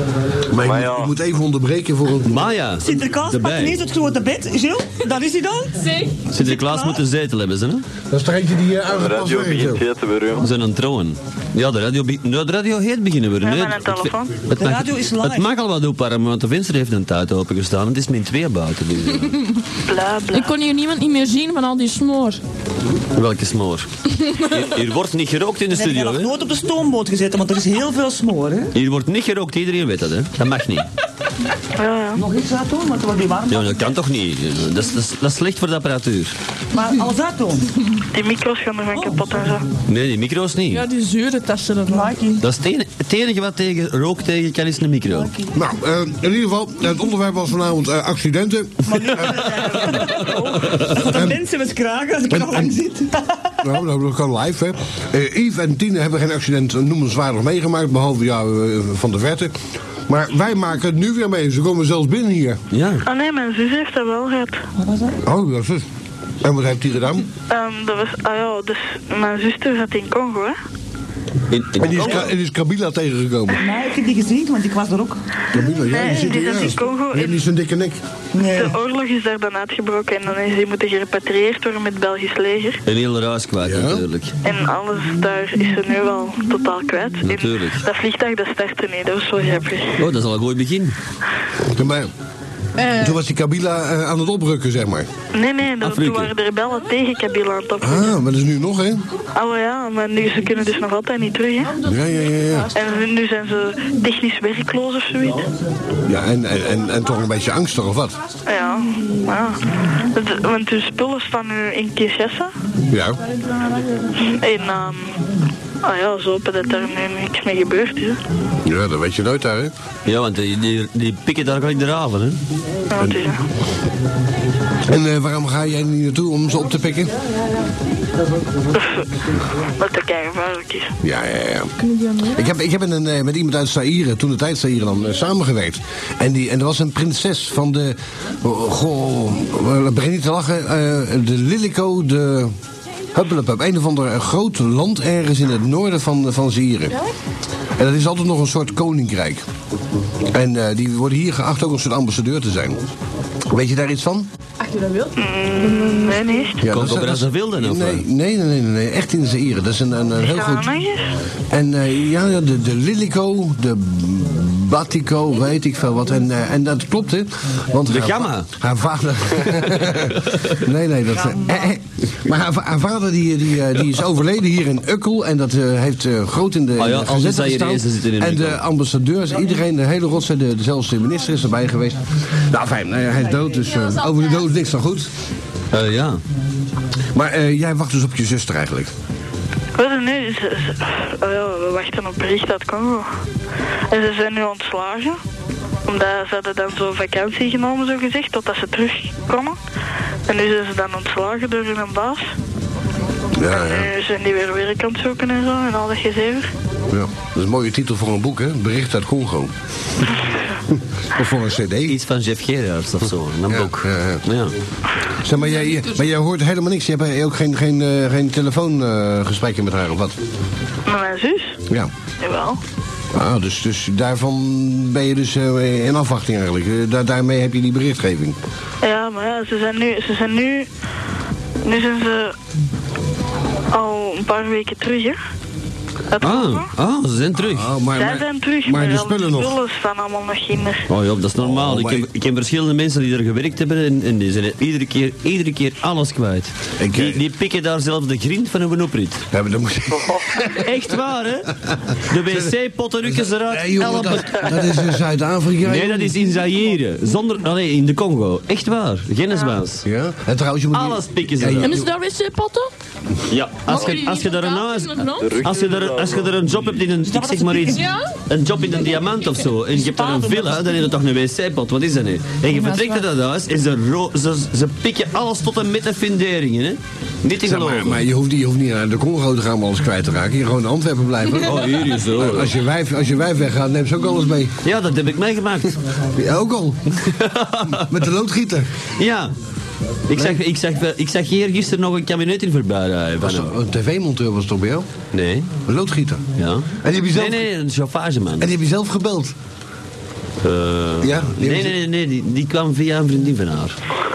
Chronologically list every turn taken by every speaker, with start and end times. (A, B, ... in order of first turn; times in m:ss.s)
0:00.4-0:02.5 A
0:00.6-0:01.1 B
0:02.2-0:03.8 C
0:02.8-0:07.0 D
0:05.8-0:06.2 E
0:06.3-0:07.8 C
0:08.1-0:09.8 A
0:08.9-0:10.4 B
0:10.4-0:19.4 C
0:13.4-0:14.3 F
0:14.5-0:15.5 D
0:19.8-0:20.5 F
0:20.3-0:22.4 E
0:23.1-0:26.3 C
0:25.7-0:28.7 D
0:28.7-0:30.9 C
0:31.8-0:32.2 F
0:32.2-0:34.0 D
0:33.5-0:36.3 C
0:36.7-0:37.7 D
0:38.1-0:39.6 F
0:38.9-0:39.4 D
0:39.9-0:40.8 C
0:40.7-0:42.1 E
0:41.9-0:42.4 D
0:42.4-0:45.3 C
0:45.1-0:45.6 D
0:45.5-0:49.7 A
0:48.8-0:53.6 D
0:51.0-0:51.4 A
0:52.3-0:52.7 A
0:53.6-1:02.6 A
1:02.7-1:03.0 C
1:03.0-1:04.6 F
1:04.8-1:05.2 D
1:05.2-1:05.9 A
1:06.4-1:07.3 A
1:07.5-1:10.6 F
1:11.5-1:12.3 C
1:11.8-1:13.6 A
1:13.6-1:15.2 D
1:15.5-1:18.0 A
1:15.8-1:17.4 F
1:18.3-1:18.8 D
1:18.5-1:22.8 F
1:22.8-1:24.4 C
1:23.6-1:24.0 A
1:24.4-1:30.0 F
1:27.2-1:27.8 C
1:30.0-1:31.0 C
1:31.6-1:32.1 A
1:32.8-1:33.2 E
1:32.9-1:35.1 A
1:35.3-1:38.2 F
1:35.8-1:36.3 C
1:37.8-1:39.1 A
1:39.3-1:41.8 F
1:41.7-1:42.7 E
1:41.8-1:42.7 A
1:42.7-1:45.5 F
1:46.0-1:48.2 A
1:48.4-1:52.5 F
1:52.9-1:53.2 A
1:54.2-1:55.2 F
1:55.8-1:58.2 F
1:58.6-1:59.7 A
2:00.0-2:02.4 C
2:02.9-2:03.4 F
2:04.8-2:07.2 A
2:08.7-2:09.0 F
2:09.8-2:10.9 F
2:11.0-2:11.7 A
2:11.8-2:12.5 E
2:12.3-2:22.5 A
2:23.1-2:27.0 A
2:27.8-2:29.4 A
2:30.3-2:32.9 A
2:33.5-2:34.3 A
2:34.6-2:36.5 E
2:35.2-2:36.6 F
2:36.6-2:40.7 A
2:36.6-2:38.0 C
2:40.2-2:41.1 F
2:41.5-3:05.1 A
2:47.9-2:48.5 C
2:49.7-2:50.6 C
2:51.1-2:51.7 D
2:56.8-2:58.6 C
3:03.6-3:04.5 E
3:05.7-3:06.2 C
3:07.1-3:08.9 A
3:09.8-3:13.1 F
3:13.9-3:15.2 F
3:15.9-3:19.6 F
3:20.3-3:22.3 F
3:23.3-3:23.9 A
3:23.4-3:26.5 F
3:26.9-3:29.5 A
3:30.7-3:32.0 A
3:31.8-3:34.5 C
3:33.5-3:34.2 A
3:35.2-3:40.2 A
3:40.8-3:41.6 F
3:42.2-3:42.6 F
3:43.1-3:48.4 A
3:48.8-3:50.7 F
3:51.6-3:52.3 F
3:53.7-3:55.2 F
3:56.1-3:56.7 F
3:56.2-3:57.7 C
3:57.4-3:59.6 A
3:57.9-4:00.8 F
4:00.9-4:09.2 C
4:01.4-4:02.1 A
4:06.8-4:07.2 A
4:09.3-4:10.7 A
4:10.5-4:14.6 C
4:12.2-4:16.2 A
4:15.6-4:19.8 C
4:19.8-4:21.9 A
4:20.7-4:21.8 C
4:21.6-4:22.7 E
4:23.3-4:38.0 C
4:23.6-4:25.4 E
4:25.2-4:26.4 B
4:27.0-4:27.9 D
4:27.7-4:28.1 E
4:29.7-4:30.8 D
4:32.5-4:33.0 E
4:37.4-4:44.6 A
4:41.4-4:42.5 C
4:44.6-4:45.8 C
4:46.1-4:47.0 A
4:47.0-4:48.0 C
4:47.7-4:48.7 A
4:49.0-4:49.3 C
4:50.1-4:53.5 C
4:50.1-4:50.4 A
4:53.2-4:54.9 A
4:55.1-4:55.5 C
4:55.6-4:56.2 A
4:56.4-4:58.5 C
4:56.8-4:57.5 A
4:58.4-4:59.3 A
5:00.4-5:03.8 C
5:01.0-5:01.8 A